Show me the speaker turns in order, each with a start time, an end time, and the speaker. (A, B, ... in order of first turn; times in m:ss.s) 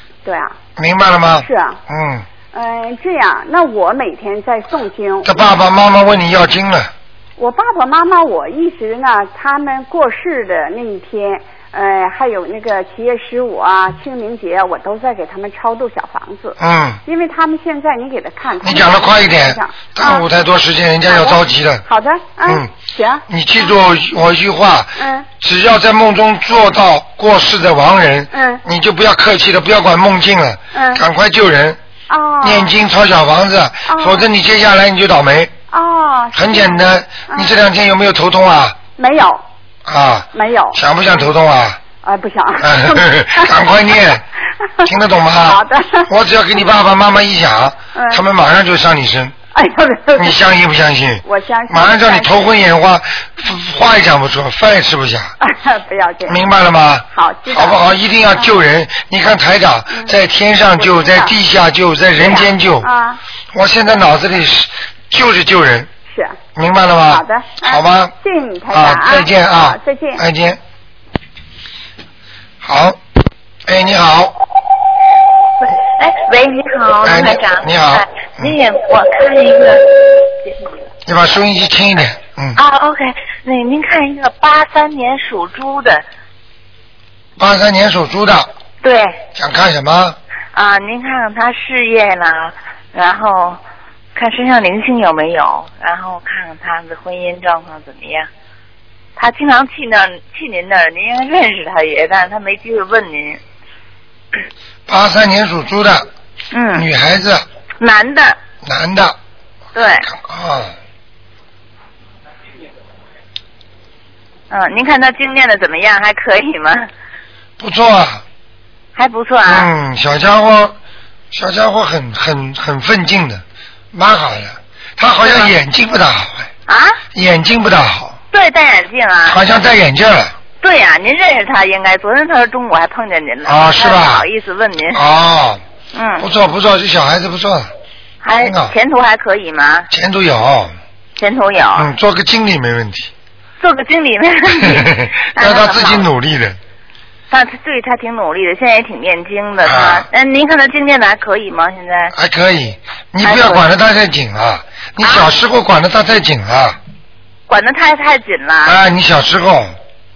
0:00.2-0:00.6 A
0:00.8-0:02.3 B
0:01.4-0:01.8 A
0:02.5-0:05.5 A
0:05.2-0:06.9 B
0:07.4-0:20.3 A
0:16.6-0:17.0 B
0:18.6-0:21.8 B
0:21.1-0:23.8 A
0:22.5-0:22.7 B
0:23.3-0:31.8 B
0:25.0-0:25.3 A
0:28.3-0:28.6 A
0:30.7-0:31.0 A
0:32.1-0:32.7 A
0:32.4-0:35.5 B
0:33.9-0:34.3 A
0:35.7-0:37.6 A
0:36.3-0:38.8 B
0:39.0-0:39.4 A
0:39.9-0:41.8 B
0:40.3-0:41.3 A
0:42.0-0:43.7 A
0:42.6-0:44.2 B
0:44.8-0:49.4 B
0:45.4-0:46.1 A
0:48.0-0:48.2 A
0:49.6-0:50.4 A
0:50.2-0:55.4 B
0:51.2-0:52.5 A
0:55.4-0:56.4 A
0:56.3-1:02.9 B
0:57.1-0:58.6 A
1:00.8-1:01.4 A
1:02.2-1:03.2 A
1:03.5-1:05.9 B
1:06.1-1:06.4 A
1:06.6-1:08.1 B
1:07.1-1:10.2 A
1:08.7-1:10.6 B
1:12.6-1:13.0 B
1:13.7-1:14.4 B
1:15.6-1:19.8 C
1:17.0-1:18.6 B
1:20.4-1:20.7 C
1:21.1-1:22.6 B
1:22.6-1:26.0 C
1:27.4-1:28.5 B
1:28.8-1:29.2 C
1:29.4-1:30.2 B
1:30.5-1:33.6 C
1:34.2-1:38.3 C
1:39.2-1:43.4 C
1:44.9-1:46.1 B
1:46.5-1:46.8 C
1:46.7-1:47.5 B
1:47.8-1:48.4 C
1:48.6-1:49.2 B
1:49.8-1:50.1 C
1:50.0-1:50.8 B
1:54.5-1:56.9 C
1:57.6-1:58.2 B
1:59.0-1:59.7 C
1:59.5-2:00.8 B
2:01.3-2:06.5 B
2:05.2-2:05.5 C
2:06.7-2:07.0 C
2:07.1-2:08.2 B
2:08.3-2:09.4 C
2:09.3-2:10.4 B
2:10.6-2:15.0 C
2:13.4-2:14.3 B
2:14.9-2:15.6 B
2:15.9-2:16.3 C
2:16.2-2:17.7 B
2:18.2-2:19.9 C
2:18.4-2:18.8 B
2:19.9-2:20.7 B
2:21.2-2:21.9 C
2:21.8-2:23.1 B
2:23.6-2:26.1 C
2:24.5-2:26.6 B
2:27.3-2:32.1 C
2:29.6-2:30.1 B
2:32.1-2:36.8 B
2:33.2-2:33.7 C
2:35.0-2:35.3 C
2:37.5-2:38.8 C
2:38.6-2:39.8 B